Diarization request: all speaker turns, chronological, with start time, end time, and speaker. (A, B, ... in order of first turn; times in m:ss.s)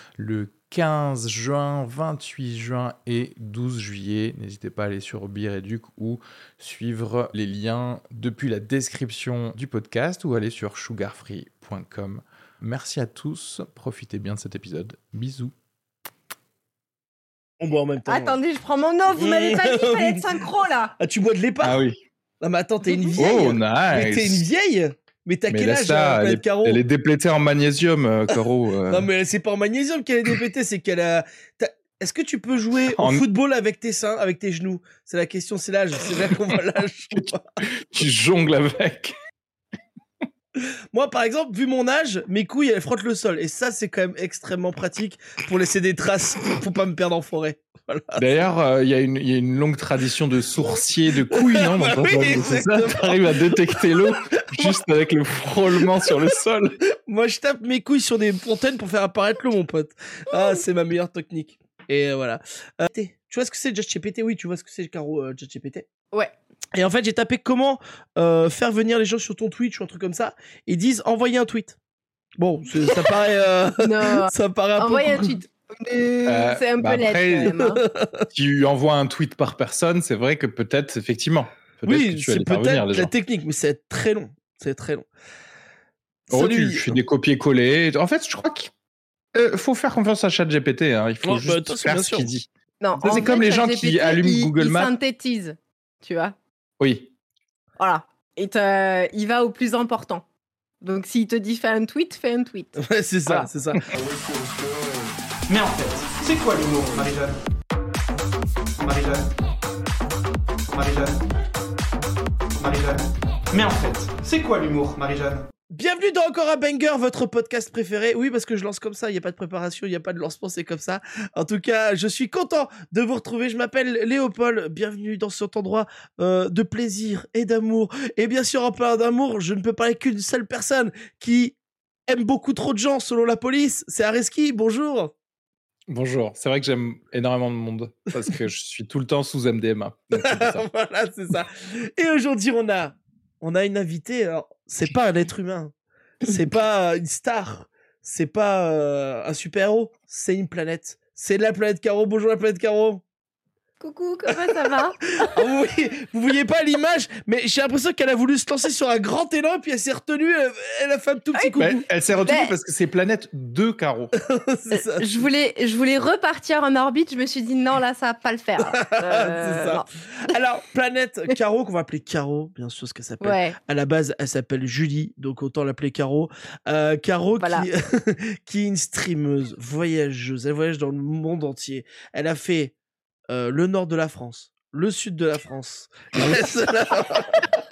0:00.2-0:15.5 A
0:17.6-0:18.4 B
0:18.1-0:20.9 C
0:19.2-0:20.4 B
0:21.0-0:21.8 B
0:21.6-0:22.0 A
0:22.4-0:26.8 B
0:22.8-0:23.4 C
0:23.2-0:24.4 A
0:25.5-0:29.1 A
0:28.9-0:37.4 B
0:32.9-0:33.2 A
0:37.1-0:39.1 A
0:40.9-0:48.2 B
0:48.2-0:56.8 A
0:51.2-0:54.8 B
0:55.8-0:56.2 B
0:57.0-1:05.9 B
1:06.7-1:11.8 B
1:12.4-1:15.4 B
1:13.8-1:17.8 C
1:16.2-1:17.6 A
1:17.8-1:18.2 B
1:18.3-1:23.1 A
1:21.8-1:25.1 B
1:26.3-1:27.0 B
1:26.3-1:28.7 A
1:29.3-1:32.5 A
1:31.2-1:32.3 B
1:32.8-1:36.4 C
1:33.0-1:33.3 B
1:33.0-1:34.9 A
1:36.8-1:37.1 A
1:37.8-1:40.2 C
1:40.8-1:43.4 C
1:42.8-1:43.8 B
1:43.3-1:43.8 A
1:44.0-1:44.8 D
1:45.5-1:47.4 D
1:48.8-1:49.3 D
1:50.7-1:51.2 D
1:52.5-1:55.4 D
1:55.7-2:11.6 B
2:12.1-2:15.1 B
2:15.9-2:20.6 A
2:20.1-2:33.0 B
2:33.8-2:35.4 C
2:34.3-2:41.8 B
2:41.6-2:44.1 A
2:42.2-2:42.5 C
2:44.2-2:45.2 B
2:44.7-2:49.8 C
2:48.6-3:02.7 B
2:53.2-2:53.6 C
2:57.4-2:57.7 C
3:03.3-3:07.4 B